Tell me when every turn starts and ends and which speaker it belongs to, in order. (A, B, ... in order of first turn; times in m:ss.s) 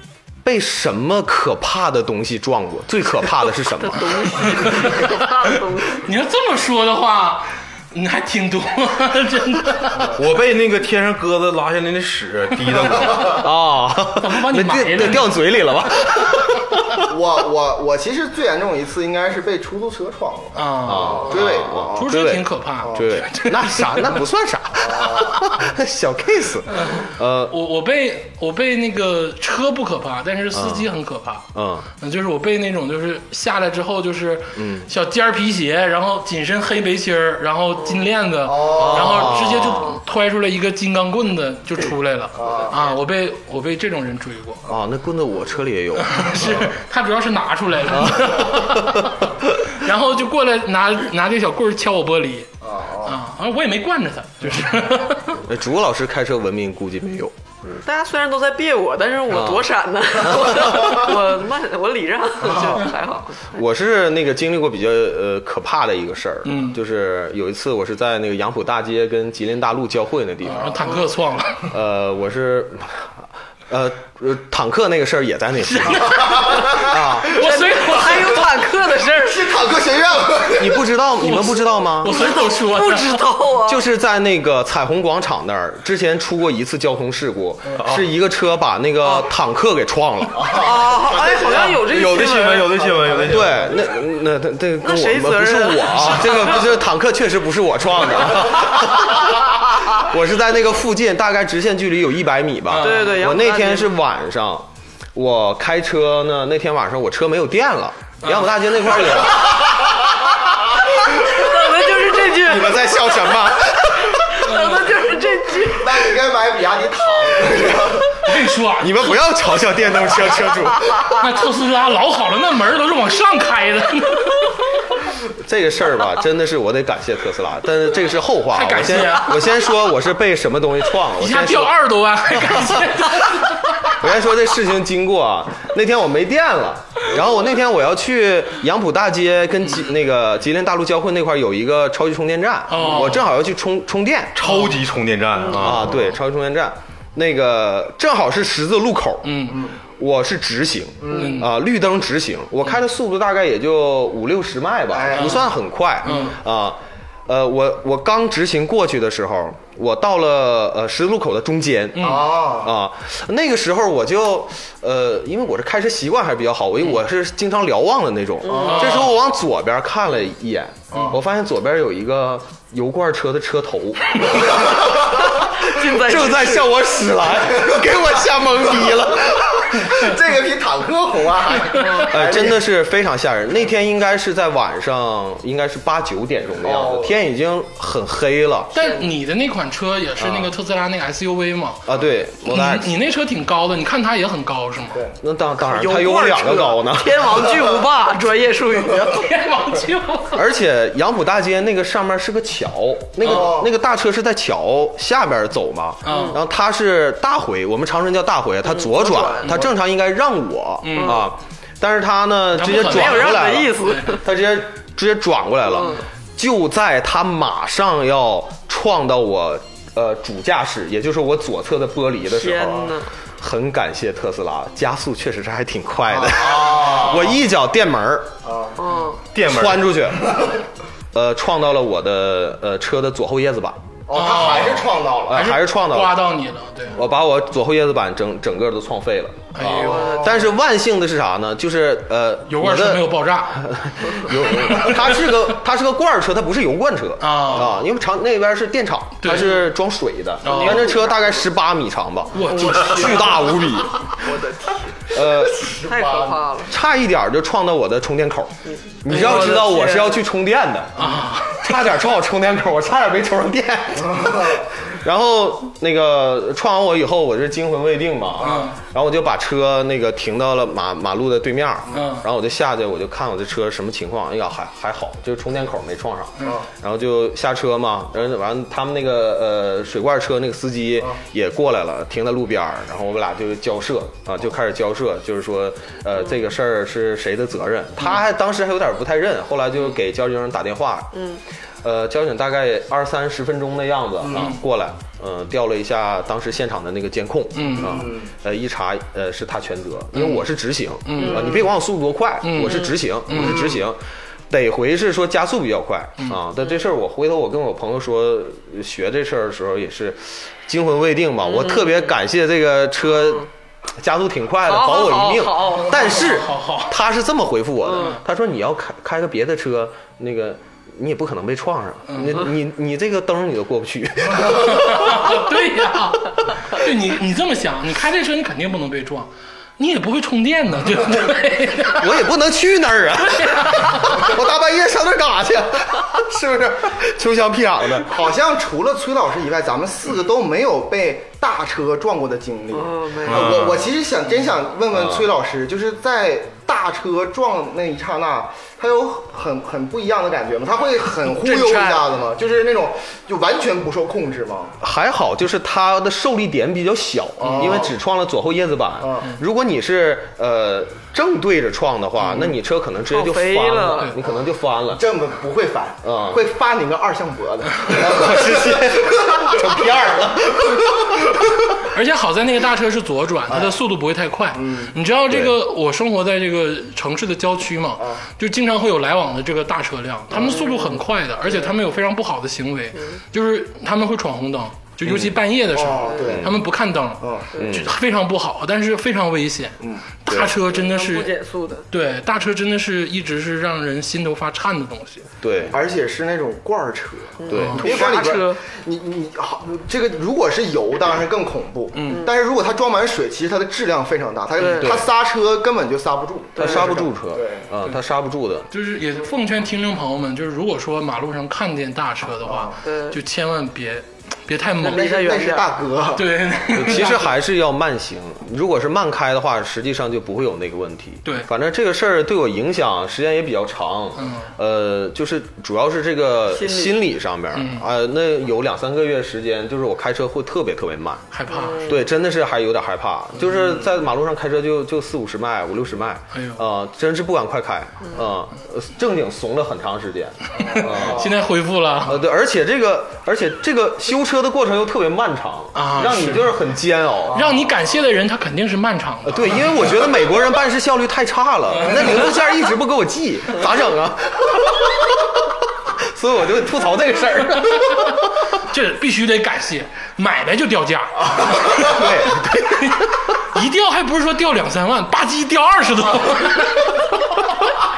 0:00.4-0:04.5 A
0:03.6-0:06.0 B
0:04.4-0:05.2 C
0:06.0-0:10.1 C
0:10.0-0:13.3 D
0:12.7-0:13.4 C
0:13.1-0:17.0 A
0:14.2-0:15.4 C
0:17.0-0:22.2 E
0:20.5-0:21.4 C
0:20.8-0:27.5 A
0:22.0-0:24.2 C
0:22.8-0:23.2 E
0:24.8-0:25.3 E
0:26.7-0:31.5 C
0:30.5-0:30.9 A
0:31.5-0:31.9 A
0:32.0-0:44.6 C
0:34.5-0:34.9 A
0:38.4-0:39.4 E
0:38.7-0:40.0 A
0:39.6-0:40.0 B
0:42.3-0:42.9 E
0:44.7-0:46.6 A
0:46.0-0:52.5 C
0:47.9-0:49.1 A
0:52.6-0:53.2 E
0:53.0-0:55.4 C
0:55.4-0:57.4 A
0:57.8-1:03.5 B
0:59.3-0:59.7 A
1:00.2-1:01.0 A
1:03.5-1:10.8 A
1:06.4-1:06.8 C
1:10.4-1:11.7 C
1:11.7-1:17.4 A
1:15.6-1:18.4 C
1:16.1-1:16.9 E
1:17.3-1:19.6 B
1:19.2-1:20.9 E
1:20.6-1:22.1 A
1:21.2-1:23.2 C
1:22.0-1:23.8 B
1:23.6-1:30.7 A
1:27.8-1:28.0 D
1:30.5-1:32.8 B
1:30.5-1:31.7 E
1:31.3-1:33.6 D
1:32.7-1:33.3 E
1:33.2-1:49.9 A
1:34.8-1:36.7 B
1:42.7-1:43.2 C
1:42.8-1:43.9 B
1:48.2-1:48.5 C
1:51.1-1:53.2 B
1:52.3-1:54.1 A
1:54.1-1:56.1 B
1:54.4-1:54.9 C
1:55.6-1:58.3 E
1:58.2-1:59.3 C
1:58.8-2:01.2 A
2:01.2-2:04.5 C
2:05.3-2:24.4 A
2:08.5-2:09.6 C
2:11.2-2:14.0 C
2:22.7-2:23.2 C
2:24.4-2:26.0 D
2:24.4-2:24.8 C
2:25.6-3:00.0 A
2:29.2-2:29.6 C
2:29.5-2:29.7 E
2:31.0-2:31.4 E
2:31.1-2:31.5 C
2:34.9-2:35.5 E
2:35.1-2:35.4 C
2:36.0-2:36.4 C
2:41.9-2:42.3 C
2:42.0-2:42.7 E
2:48.4-2:49.0 B
2:48.5-2:49.1 C
2:55.2-2:56.8 B
2:58.8-3:02.6 E
3:02.0-3:08.8 A
3:06.6-3:07.2 E
3:08.7-3:11.8 C
3:10.2-3:10.5 A
3:11.8-3:12.9 A
3:12.5-3:15.0 C
3:15.2-3:17.4 A
3:15.6-3:19.3 B
3:19.1-3:20.4 C
3:20.3-3:48.3 A
3:23.2-3:23.5 C
3:23.2-3:23.7 E
3:26.0-3:26.4 C
3:26.1-3:26.4 B
3:28.7-3:29.6 B
3:30.8-3:31.2 C
3:31.0-3:31.2 B
3:32.5-3:34.2 C
3:32.8-3:34.2 B
3:35.7-3:36.0 B
3:42.3-3:43.1 B
3:46.1-3:47.4 E
3:48.4-3:48.8 E
3:48.8-3:49.2 B
3:49.3-3:50.4 A
3:49.4-3:49.8 D
3:51.1-3:53.8 A
3:54.1-3:55.5 E
3:54.1-3:57.0 C
3:55.3-3:56.2 A
3:56.9-4:14.2 A
3:59.5-4:00.3 C
3:59.7-4:00.5 B
4:02.5-4:05.3 C
4:07.2-4:07.7 C
4:09.2-4:09.5 C
4:09.3-4:09.6 B
4:10.4-4:10.9 C
4:10.4-4:11.4 B
4:12.3-4:13.5 C
4:12.5-4:15.2 B
4:15.1-4:15.8 A
4:15.6-4:16.4 E
4:15.7-4:16.7 B
4:16.7-4:51.2 A
4:18.7-4:20.2 B
4:19.1-4:19.6 C
4:21.0-4:21.8 C
4:24.0-4:24.6 E
4:28.4-4:28.8 C
4:31.9-4:32.2 C
4:36.4-4:36.7 E
4:51.1-4:51.4 B
4:51.8-5:25.4 A
4:54.3-4:54.6 C
4:57.5-4:58.1 C
4:57.9-4:58.2 E
5:00.1-5:00.4 C
5:01.0-5:01.6 C
5:01.2-5:01.7 B
5:02.4-5:03.8 C
5:11.4-5:12.1 B
5:13.2-5:13.4 B
5:14.6-5:16.3 B
5:15.9-5:16.9 C
5:17.8-5:18.2 B
5:22.1-5:22.4 C
5:24.5-5:32.1 C
5:31.9-5:38.1 A
5:33.2-5:34.1 C
5:38.0-5:54.8 E
5:42.7-5:43.7 B
5:43.3-5:43.7 D
5:44.9-5:45.3 A
5:51.2-5:52.1 C
5:54.8-6:05.0 A
5:57.4-5:57.9 E
6:03.1-6:04.1 B
6:04.9-6:09.9 E
6:06.0-6:06.4 A
6:07.9-6:11.3 A
6:10.5-6:10.8 E
6:11.9-6:31.3 C
6:13.5-6:13.8 E
6:14.5-6:14.9 E
6:15.3-6:15.5 A
6:18.0-6:18.2 E
6:20.4-6:21.0 B
6:25.0-6:25.4 A
6:25.7-6:26.6 E
6:26.0-6:26.3 B
6:26.2-6:26.6 A
6:27.2-6:27.5 E
6:27.5-6:27.8 B
6:27.6-6:27.9 A
6:30.3-6:30.5 A
6:30.7-6:31.9 B
6:31.9-6:35.3 C
6:35.4-6:35.8 A
6:35.7-6:47.6 E
6:37.4-6:38.6 B
6:37.5-6:37.8 A
6:37.5-6:37.8 C
6:41.9-6:42.3 C
6:44.6-6:45.0 B
6:46.5-6:47.0 B
6:46.6-6:48.7 A
6:48.7-6:55.0 C
6:52.4-6:52.8 E
6:52.8-6:53.2 B
6:54.8-6:55.7 B
6:54.8-6:56.3 E
6:56.2-6:57.3 C
6:56.7-7:21.3 A
7:04.2-7:04.5 C
7:06.5-7:07.0 B
7:07.5-7:07.9 C
7:11.3-7:11.9 C
7:11.5-7:12.0 B
7:16.3-7:16.6 C
7:20.6-7:22.2 C
7:20.7-7:21.3 E
7:22.0-7:27.5 A
7:25.7-7:26.6 C
7:27.3-7:27.6 E
7:27.3-7:29.7 C
7:29.2-7:38.4 A
7:31.7-7:32.2 C
7:38.6-7:47.0 C
7:41.5-7:43.0 A